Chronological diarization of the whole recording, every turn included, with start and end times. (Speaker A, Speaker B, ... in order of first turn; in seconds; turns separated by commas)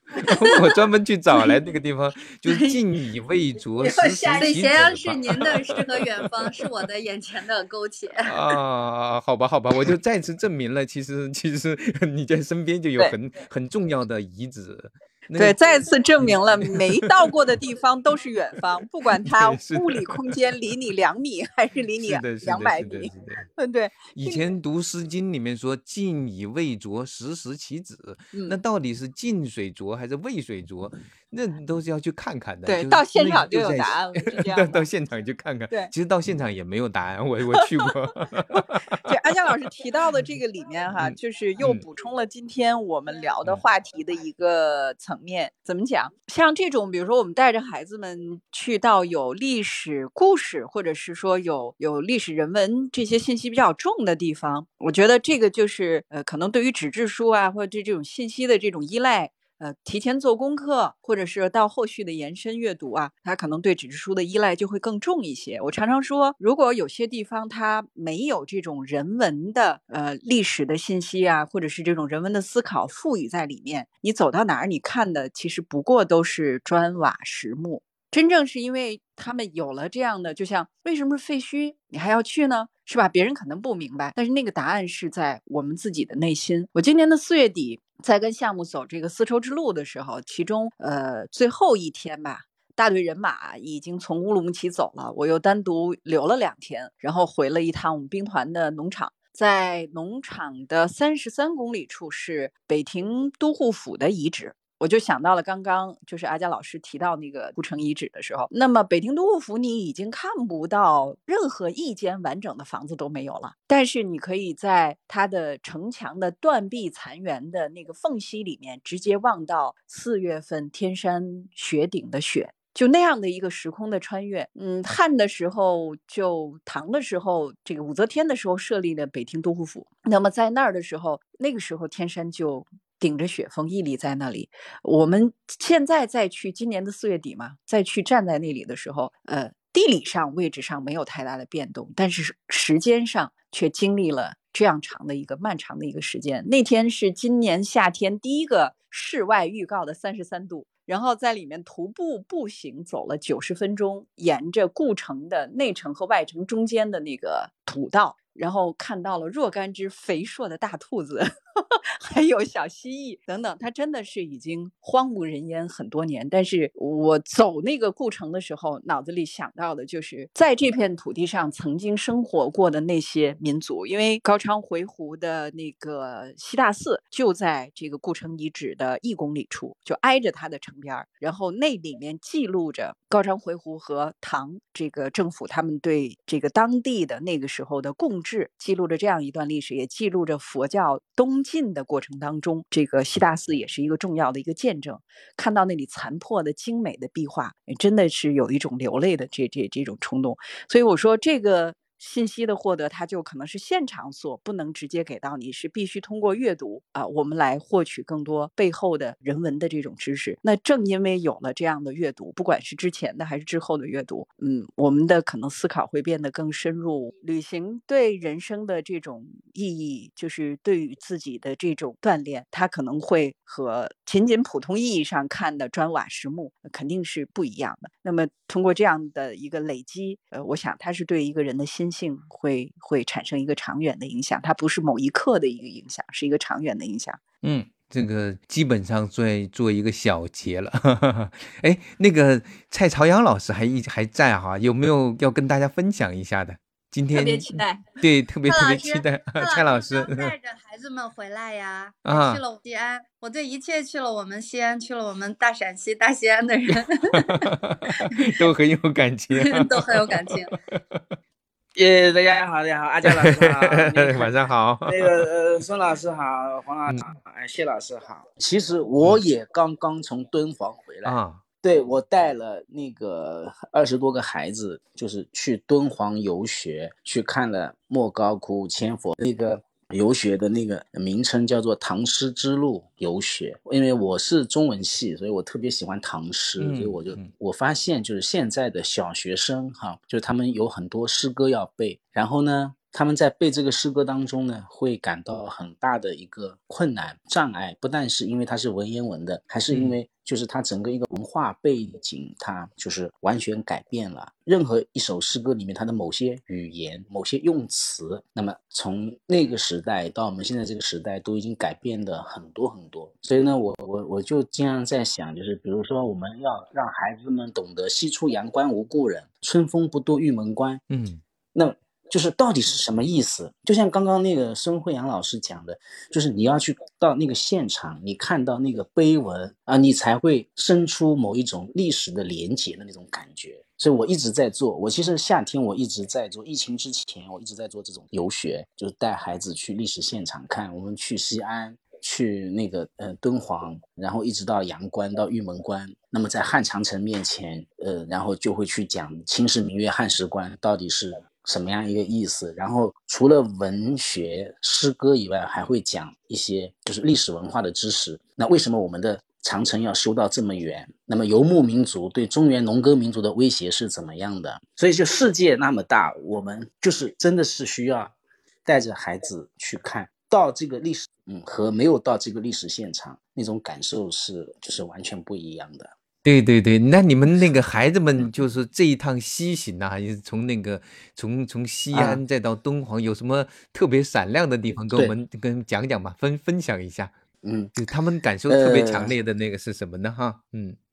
Speaker A: 0.2-0.7, Speaker B: 0.2-6.6, Speaker A: 1.3-1.6, Speaker A: 2.5-2.8, Speaker A: 3.8-8.3, Speaker C: 4.1-4.6, Speaker B: 8.2-17.4, Speaker C: 15.3-24.4, Speaker B: 19.2-20.4, Speaker B: 22.0-23.4, Speaker B: 24.1-39.0, Speaker C: 28.3-28.6, Speaker C: 32.6-34.8, Speaker C: 37.6-37.9, Speaker C: 38.6-237.2, Speaker B: 41.0-41.8, Speaker B: 237.4-250.3, Speaker C: 247.1-247.8, Speaker A: 248.4-257.4, Speaker B: 252.0-252.4, Speaker B: 257.3-261.1, Speaker A: 259.4-260.5, Speaker D: 261.8-264.3, Speaker B: 263.1-265.2, Speaker D: 264.9-320.8, Speaker B: 271.0-271.4, Speaker B: 286.6-287.3, Speaker B: 299.7-299.9, Speaker B: 320.9-321.2, Speaker D: 321.5-368.1, Speaker D: 368.6-375.9, Speaker B: 376.2-387.1, Speaker D: 381.9-382.2, Speaker D: 387.4-387.7, Speaker B: 387.8-390.8, Speaker D: 388.5-389.1